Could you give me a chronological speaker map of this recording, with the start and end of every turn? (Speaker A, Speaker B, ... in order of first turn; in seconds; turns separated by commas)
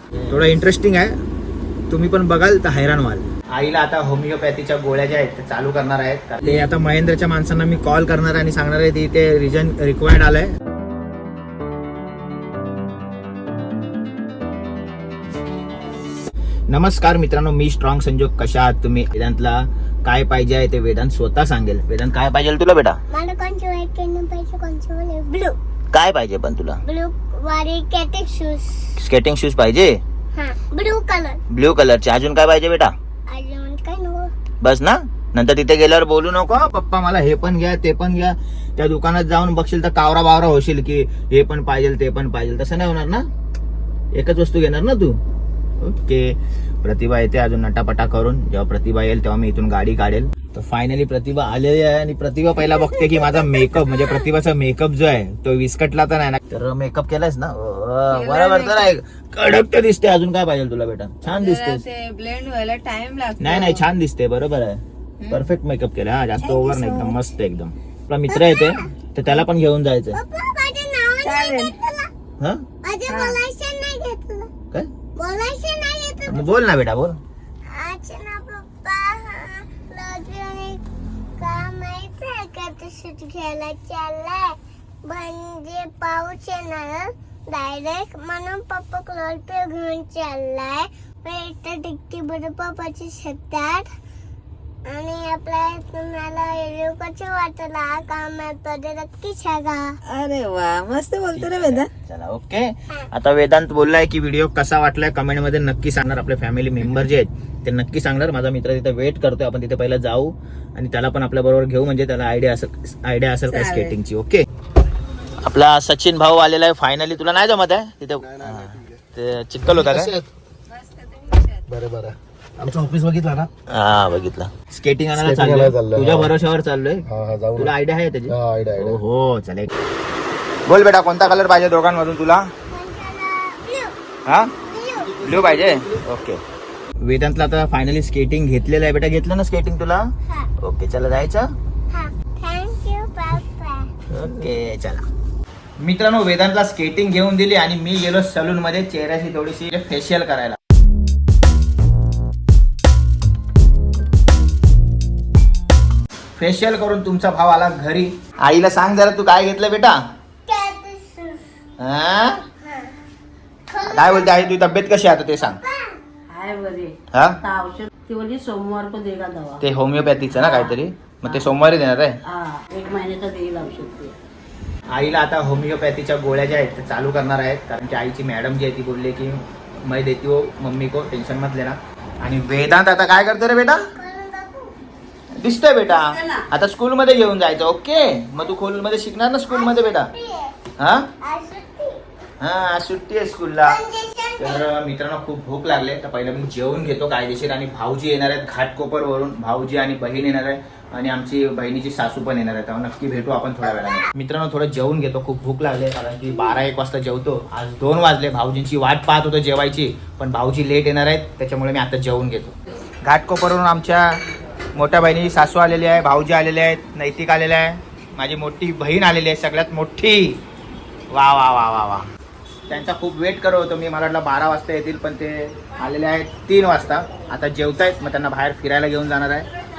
Speaker A: 0.3-1.2, Speaker A: 1.9-10.6, Speaker A: 16.7-23.0, Speaker B: 23.1-25.6, Speaker A: 25.9-26.8, Speaker B: 26.9-29.0, Speaker A: 29.0-30.0, Speaker B: 30.4-31.4, Speaker A: 31.5-32.9, Speaker B: 33.3-34.3, Speaker A: 34.6-43.3, Speaker A: 44.1-45.2, Speaker A: 45.8-61.8, Speaker C: 58.1-58.9, Speaker C: 61.3-63.8, Speaker A: 63.4-70.2, Speaker B: 66.8-67.2, Speaker B: 68.3-68.9, Speaker B: 70.1-72.1, Speaker C: 71.2-71.8, Speaker A: 72.4-72.7, Speaker B: 72.8-74.5, Speaker C: 73.1-73.4, Speaker B: 75.2-76.6, Speaker A: 76.3-77.2, Speaker B: 77.7-80.8, Speaker B: 81.4-93.9, Speaker B: 94.9-100.0, Speaker A: 101.3-114.5, Speaker C: 113.5-113.9, Speaker A: 115.4-120.2, Speaker C: 120.8-121.6, Speaker D: 121.8-123.5, Speaker A: 123.7-129.7, Speaker D: 125.5-126.0, Speaker A: 130.7-132.5, Speaker B: 132.7-133.9, Speaker A: 134.3-134.6, Speaker B: 134.6-135.7, Speaker A: 135.1-136.4, Speaker A: 137.0-140.1, Speaker A: 140.6-141.5, Speaker B: 141.9-143.9, Speaker A: 144.1-145.1, Speaker A: 145.8-150.6, Speaker A: 156.4-160.0, Speaker B: 160.5-161.4, Speaker A: 161.8-162.4, Speaker B: 162.6-162.9, Speaker B: 163.7-164.4, Speaker A: 163.8-165.6, Speaker B: 165.6-166.0, Speaker E: 166.3-169.6, Speaker A: 167.1-167.4, Speaker A: 169.6-172.2, Speaker E: 172.2-174.2, Speaker A: 174.9-183.9, Speaker B: 183.9-184.7, Speaker A: 185.3-190.1, Speaker B: 189.5-190.6, Speaker A: 190.8-191.1, Speaker B: 191.2-192.0, Speaker A: 192.4-193.8, Speaker B: 193.7-194.7, Speaker A: 194.4-214.2, Speaker A: 214.8-220.4, Speaker A: 221.1-222.1, Speaker A: 222.7-229.5